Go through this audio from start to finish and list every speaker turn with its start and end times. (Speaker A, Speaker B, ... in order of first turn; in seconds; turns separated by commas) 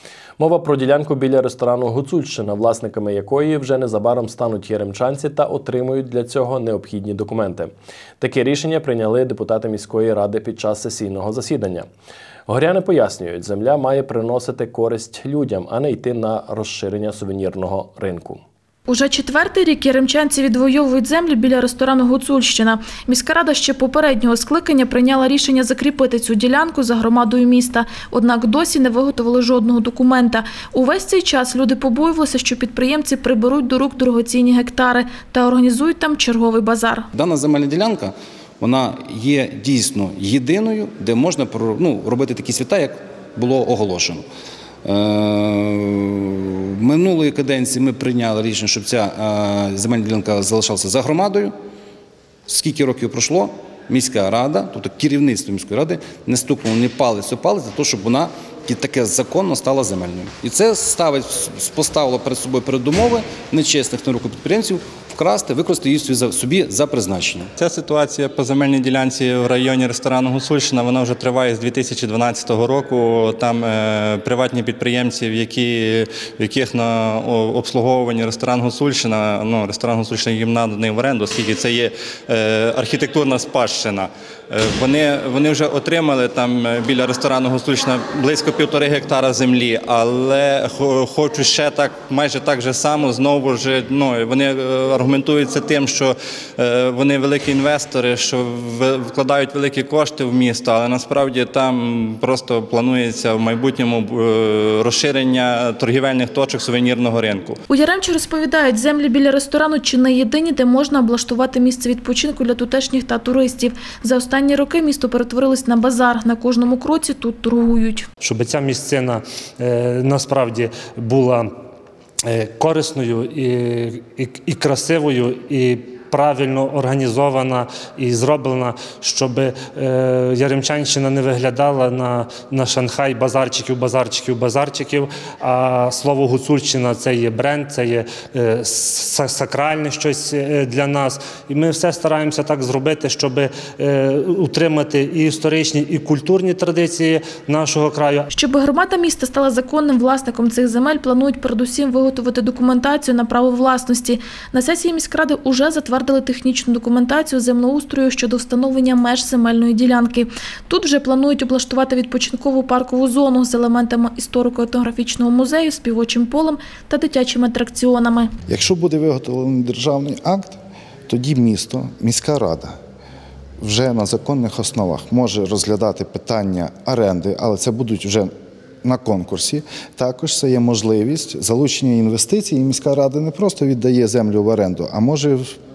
Speaker A: 0.4-11.9, Speaker A: 12.5-18.4, Speaker B: 18.9-37.1, Speaker C: 37.1-44.3, Speaker C: 44.8-51.5, Speaker C: 52.5-67.5, Speaker D: 67.6-107.6, Speaker B: 107.7-118.0, Speaker E: 118.2-121.5, Speaker E: 122.3-148.3, Speaker B: 148.3-168.3, Speaker F: 168.5-172.7, Speaker F: 173.6-178.3, Speaker F: 178.8-185.5